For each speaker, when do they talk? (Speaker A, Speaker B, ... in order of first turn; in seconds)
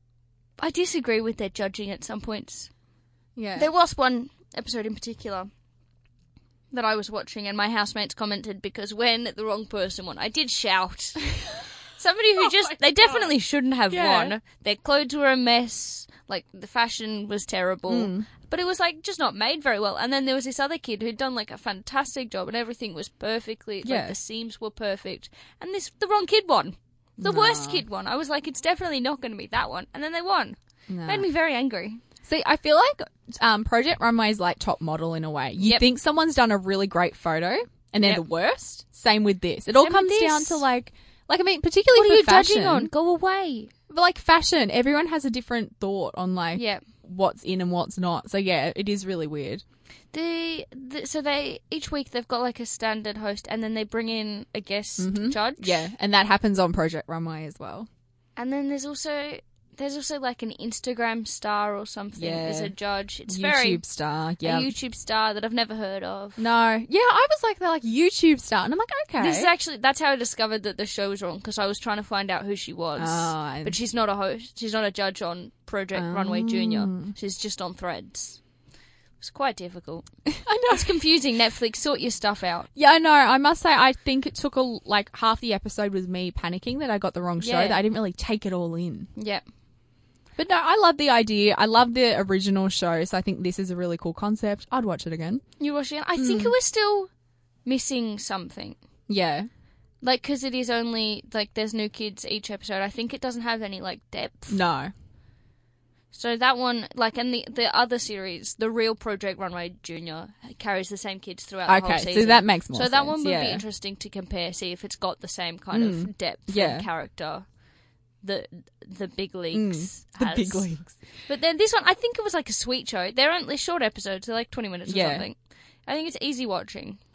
Speaker A: 0.6-2.7, 3.5-5.5, 6.7-11.3, 11.9-32.0, 35.6-35.9, 39.8-40.6, 41.9-43.7, 46.5-46.8, 50.1-55.9, 58.4-63.8, 64.4-66.5, 69.2-78.4, 79.2-80.1, 80.7-82.7, 87.4-87.8, 89.2-89.4, 95.6-97.1, 97.6-98.8, 100.0-104.6, 106.1-117.4, 118.2-120.7, 121.2-127.0
Speaker B: 3.4-3.7, 12.4-13.3, 13.9-14.3, 17.9-18.3, 23.8-24.2, 27.2-27.8, 30.9-31.3, 32.2-42.9, 43.9-49.6, 55.0-57.9, 62.1-62.7, 63.3-64.7, 66.4-69.5, 73.0-73.8, 75.9-77.1, 80.3-81.0, 82.8-89.1, 90.4-95.4, 96.2-96.5, 99.1-99.5, 104.5-104.9, 111.7-113.6, 115.7-116.9, 119.5-121.0, 124.9-125.3